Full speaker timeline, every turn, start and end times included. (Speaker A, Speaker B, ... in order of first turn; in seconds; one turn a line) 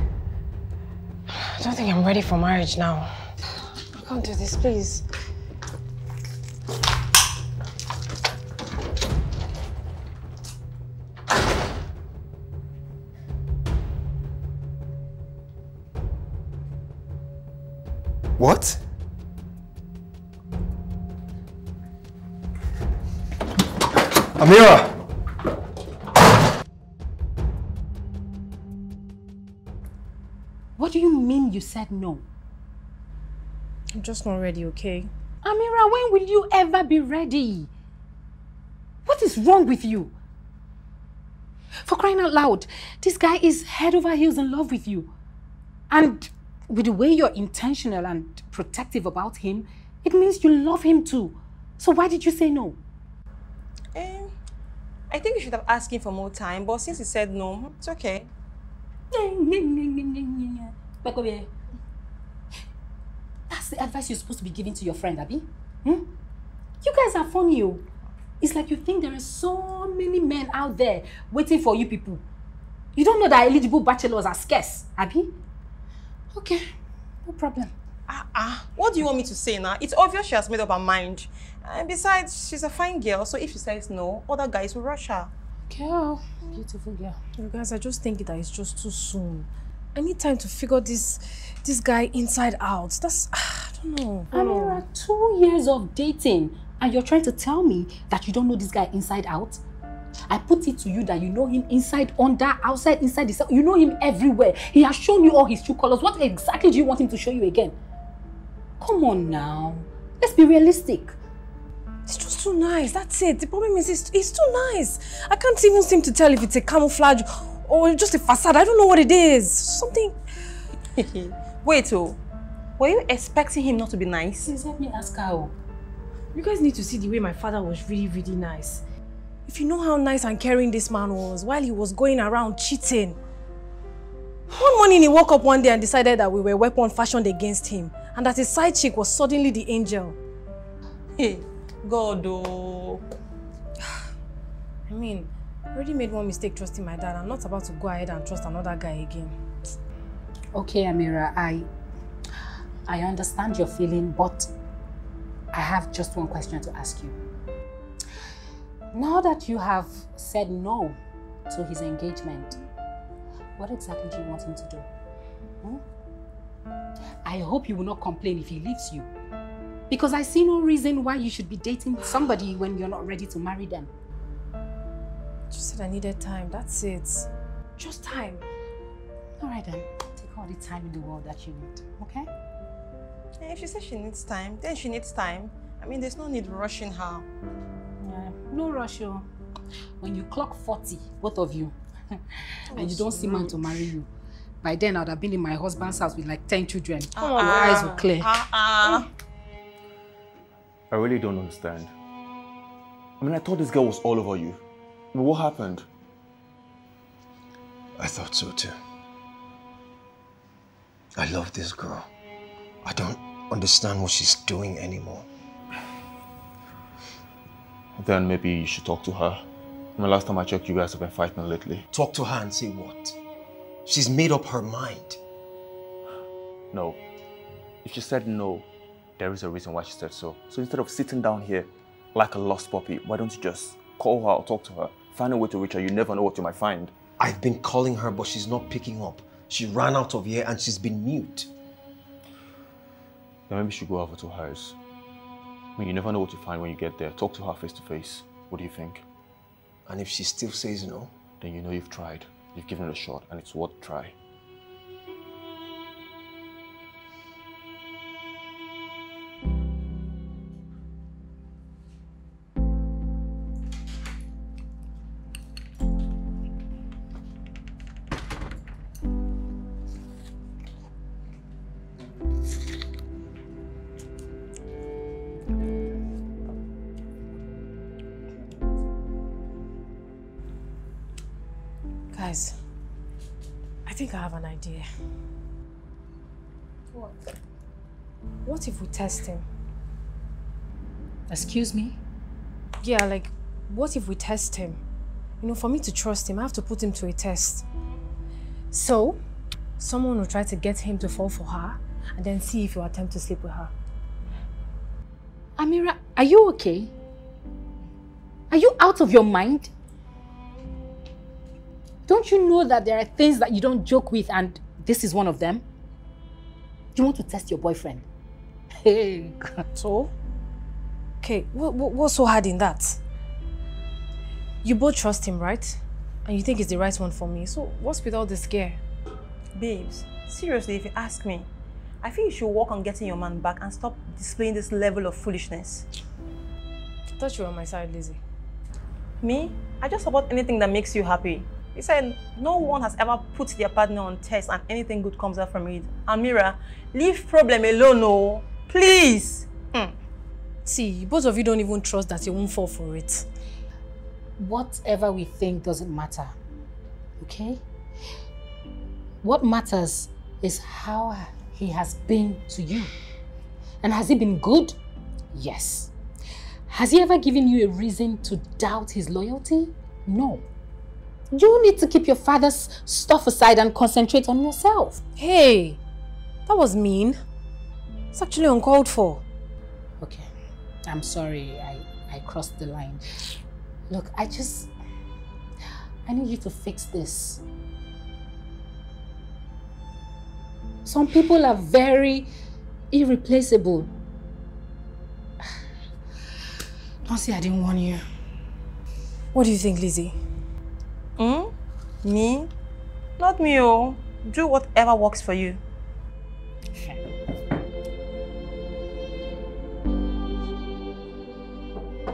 Speaker A: 1.3-3.3
Speaker A: 3.9-5.0
Speaker B: 18.4-18.8
Speaker B: 24.4-25.0
Speaker C: 30.8-32.2
Speaker A: 33.9-35.1
Speaker C: 35.4-37.7
Speaker C: 39.0-40.1
Speaker C: 41.8-45.1
Speaker C: 45.9-52.8
Speaker D: 53.9-54.3
Speaker D: 55.1-58.3
Speaker C: 59.1-61.5
Speaker C: 63.5-66.1
Speaker C: 66.8-67.8
Speaker C: 68.4-72.2
Speaker C: 72.9-75.3
Speaker C: 76.3-76.7
Speaker C: 77.2-77.7
Speaker D: 78.1-85.3
Speaker C: 85.7-87.2
Speaker A: 87.4-94.8
Speaker C: 94.3-99.6
Speaker C: 100.3-107.8
Speaker C: 108.8-111.2
Speaker A: 112.1-120.2
Speaker D: 121.0-122.2
Speaker D: 122.8-124.5
Speaker C: 124.4-125.5
Speaker A: 126.3-128.8
Speaker A: 129.5-133.2
Speaker A: 134.5-140.2
Speaker D: 141.2-143.0
Speaker A: 144.9-149.4
Speaker C: 150.5-151.7
Speaker C: 152.9-154.5
Speaker C: 155.5-157.2
Speaker C: 158.9-162.6
Speaker C: 163.6-164.9
Speaker C: 167.2-169.1
Speaker C: 169.9-173.9
Speaker A: 175.5-178.4
Speaker C: 179.4-182.3
Speaker D: 183.4-187.3
Speaker C: 188.0-189.2
Speaker C: 190.0-194.1
Speaker D: 192.8-193.5
Speaker C: 194.6-198.3
Speaker D: 197.2-199.1
Speaker A: 197.2-197.7
Speaker E: 200.9-201.9
Speaker E: 203.2-204.6
Speaker E: 205.1-205.8
Speaker B: 208.0-208.7
Speaker B: 211.2-212.1
Speaker B: 212.8-215.3
Speaker E: 218.0-219.4
Speaker E: 220.0-221.8
Speaker B: 221.9-223.2
Speaker B: 223.8-225.2
Speaker E: 226.7-227.0
Speaker E: 227.8-236.9
Speaker B: 237.2-241.5
Speaker E: 243.5-244.8
Speaker E: 245.8-249.0
Speaker B: 249.9-251.1
Speaker E: 251.4-254.2
Speaker A: 282.1-282.6
Speaker A: 283.9-284.8
Speaker A: 288.4-289.4
Speaker C: 291.3-292.0
Speaker A: 292.8-294.8
Speaker A: 295.4-297.6
Speaker A: 298.7-299.2
Speaker A: 299.8-303.7
Speaker C: 305.6-306.9
Speaker C: 308.5-309.7
Speaker C: 312.1-315.6
Speaker C: 316.9-318.1
Speaker C: 318.8-319.7
Speaker A: 319.8-320.1
Speaker A: 321.2-323.0
Speaker A: 324.6-328.8
Speaker D: 329.5-331.5
Speaker D: 332.0-335.9
Speaker A: 337.2-338.2
Speaker D: 339.2-349.9
Speaker A: 350.6-353.2
Speaker C: 354.4-356.3
Speaker C: 357.2-357.6
Speaker C: 359.2-362.9
Speaker C: 363.8-364.8
Speaker C: 365.3-365.9
Speaker C: 366.7-370.4
Speaker C: 371.3-375.0
Speaker A: 375.2-375.8
Speaker A: 376.4-377.2
Speaker A: 378.1-379.2
Speaker C: 380.0-380.3
Speaker C: 380.9-383.3
Speaker C: 383.9-384.7
Speaker C: 386.1-387.4
Speaker C: 390.8-392.3
Speaker C: 392.9-393.9
Speaker C: 397.1-398.0
Speaker A: 399.3-400.2
Speaker D: 401.2-402.5
Speaker D: 403.2-405.6